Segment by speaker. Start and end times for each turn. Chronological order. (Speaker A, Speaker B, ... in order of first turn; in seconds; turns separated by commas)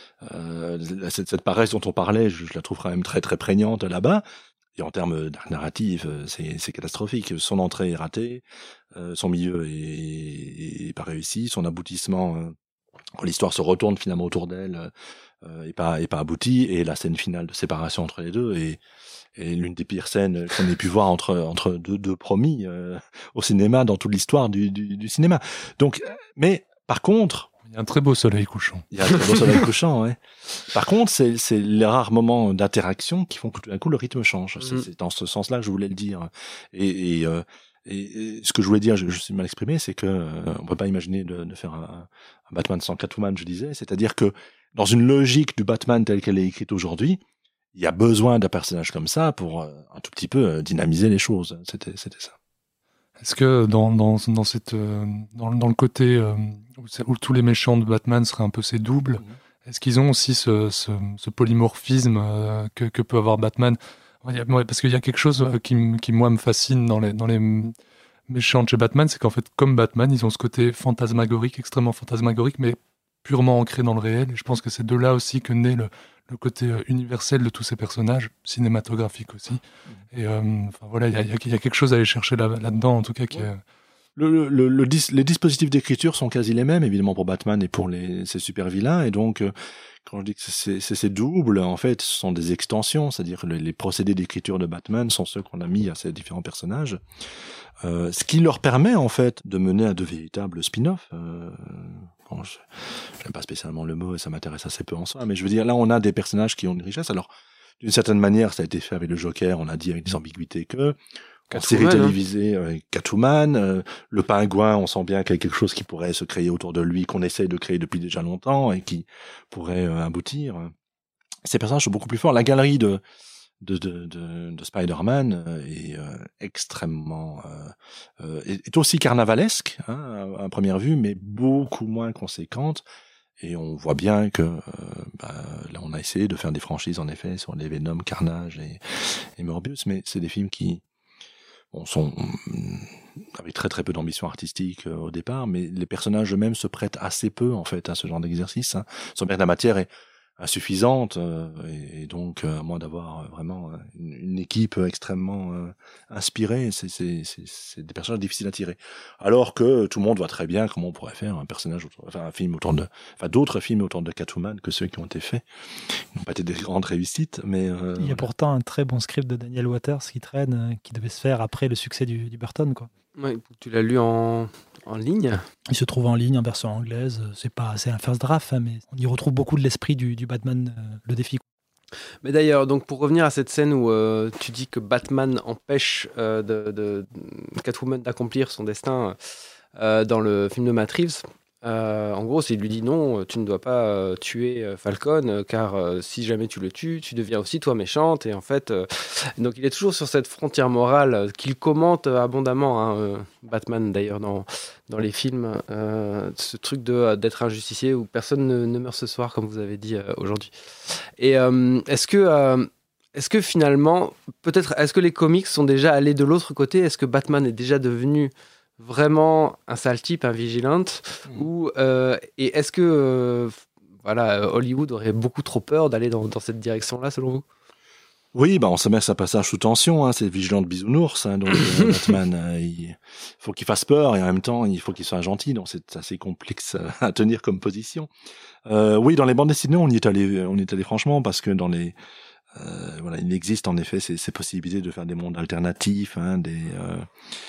Speaker A: 0.2-4.2, Speaker A: 4.8-12.6, Speaker A: 13.2-18.8, Speaker A: 19.4-27.5, Speaker B: 27.7-28.9, Speaker A: 28.9-47.2, Speaker A: 47.8-52.4, Speaker B: 53.2-67.7, Speaker B: 68.3-79.6, Speaker B: 80.1-83.6, Speaker A: 84.2-89.5, Speaker A: 90.0-97.0, Speaker A: 97.8-111.0, Speaker A: 111.5-120.7, Speaker C: 111.6-112.2, Speaker A: 121.5-123.0, Speaker A: 123.6-132.8, Speaker A: 133.4-140.8, Speaker A: 141.7-168.3, Speaker D: 168.0-172.9, Speaker C: 173.2-175.4, Speaker D: 175.7-181.4, Speaker C: 182.2-227.4, Speaker A: 228.3-238.1, Speaker A: 238.7-242.0, Speaker A: 242.5-247.1